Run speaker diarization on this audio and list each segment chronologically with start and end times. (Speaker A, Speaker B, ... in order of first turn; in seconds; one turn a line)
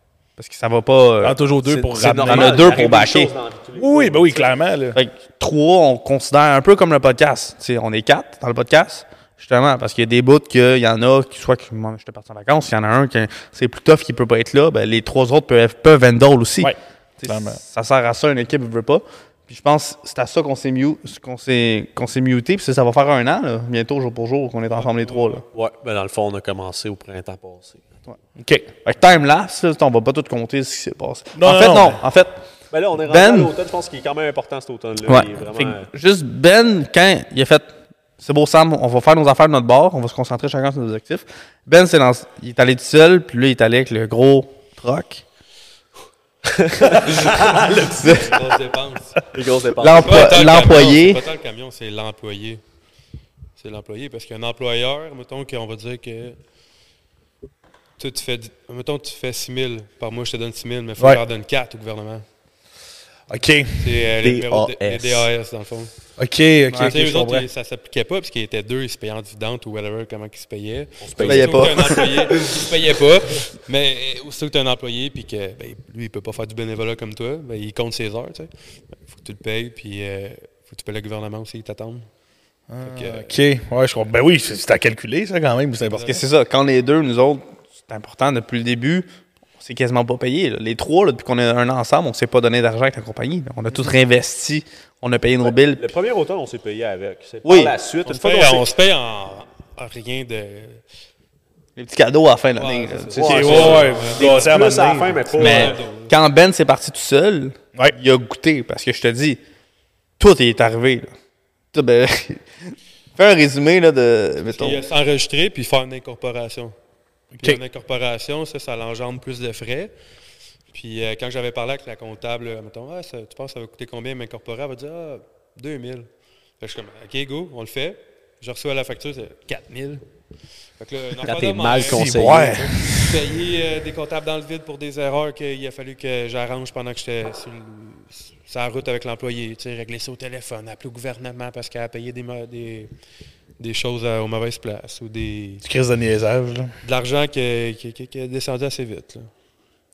Speaker A: 0.4-1.4
Speaker B: 1.2-2.8
Speaker C: 1.6-4.6
Speaker A: 2.1-3.3
Speaker B: 3.8-5.0
Speaker A: 4.9-25.4
Speaker B: 16.6-17.6
Speaker D: 24.8-25.4
Speaker C: 25.5-27.8
Speaker B: 28.4-28.7
Speaker A: 28.9-32.4
Speaker B: 31.4-32.0
Speaker C: 32.7-35.9
Speaker A: 33.1-33.5
Speaker A: 35.0-45.2
Speaker C: 46.5-48.2
Speaker D: 47.3-49.3
Speaker A: 48.0-48.4
Speaker C: 49.3-50.5
Speaker A: 49.8-51.2
Speaker D: 49.9-52.6
Speaker D: 53.6-56.4
Speaker D: 58.0-62.2
Speaker B: 63.3-63.9
Speaker D: 63.8-65.9
Speaker C: 64.2-65.3
Speaker B: 66.2-67.5
Speaker A: 66.7-67.0
Speaker D: 66.8-82.1
Speaker C: 71.0-72.1
Speaker A: 71.2-72.2
Speaker B: 82.7-86.2
Speaker D: 82.8-83.3
Speaker D: 85.8-86.2
Speaker A: 86.0-89.1
Speaker A: 89.6-95.9
Speaker C: 95.4-98.7
Speaker A: 97.4-97.7
Speaker D: 98.1-100.8
Speaker A: 101.8-103.7
Speaker D: 102.6-106.1
Speaker C: 103.2-105.8
Speaker B: 103.2-105.2
Speaker A: 105.4-109.4
Speaker A: 110.2-111.1
Speaker A: 111.7-114.8
Speaker D: 114.5-116.8
Speaker B: 117.3-117.6
Speaker D: 117.4-119.9
Speaker D: 120.7-126.1
Speaker D: 126.6-130.0
Speaker D: 130.8-132.2
Speaker C: 131.2-132.7
Speaker B: 131.9-133.0
Speaker D: 132.8-142.9
Speaker D: 143.6-145.6
Speaker B: 145.6-146.7
Speaker D: 146.8-149.3